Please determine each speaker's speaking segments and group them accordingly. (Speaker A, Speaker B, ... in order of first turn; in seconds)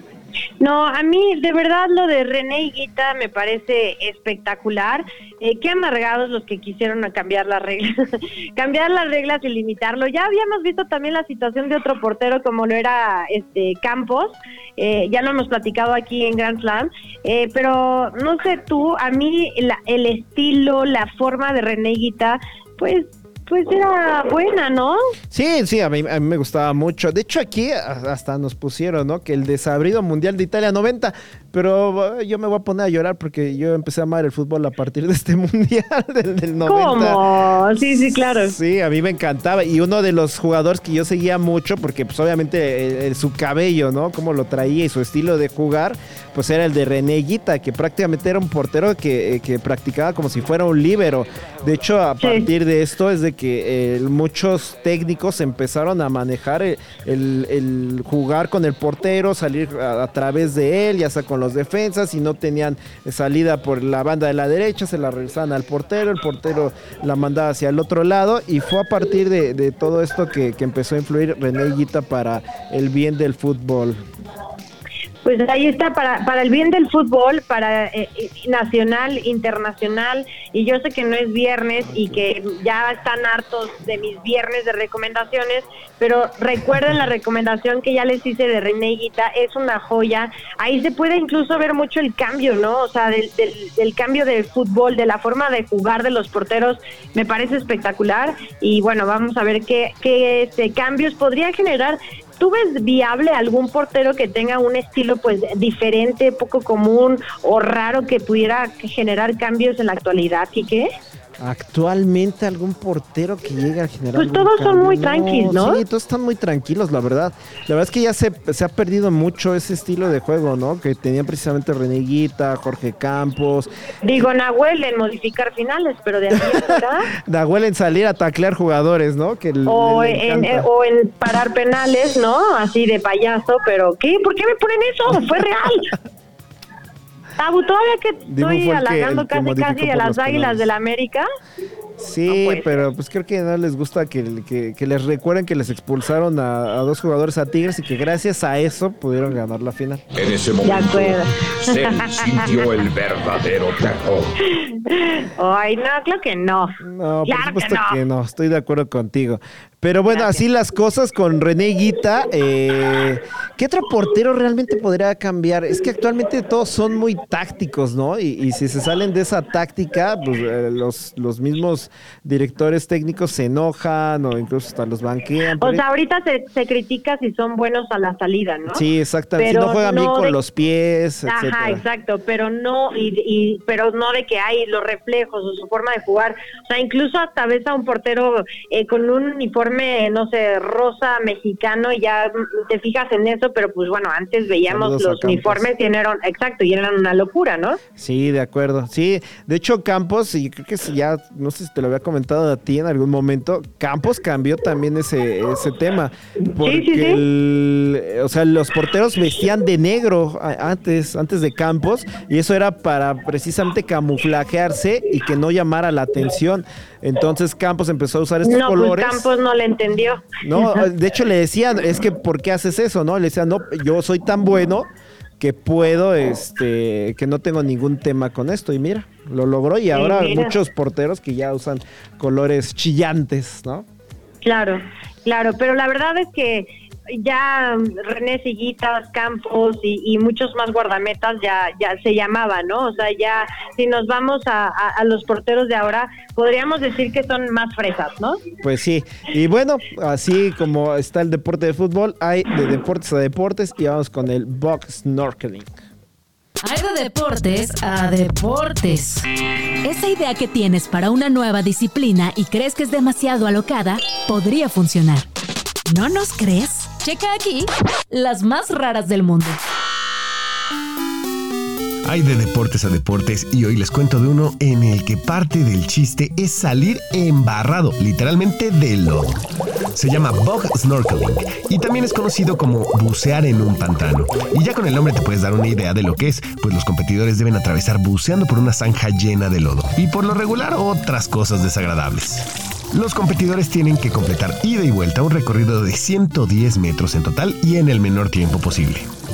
Speaker A: 0.6-25.0, 36.7-38.5, 52.2-52.5, 75.2-110.9, 114.2-115.8, 124.0-127.1, 129.7-135.9, 137.4-141.2, 142.3-142.8, 150.6-152.5, 154.6-158.0, 160.1-160.4, 175.6-178.8, 179.4-180.4, 181.3-197.8, 206.6-207.2, 218.4-220.9, 229.9-230.6, 234.4-248.4
Speaker B: 25.3-37.2, 38.3-74.0, 111.4-123.7, 126.3-130.7, 138.3-140.7, 142.0-150.1, 156.8-175.8, 178.7-181.8, 194.7-195.7, 198.0-219.3, 220.4-224.9, 225.4-233.9, 248.6-255.8
Speaker C: 150.2-154.3
Speaker D: 256.6-259.3, 259.8-265.3, 265.9-269.6
Speaker E: 272.1-279.4, 279.9-299.1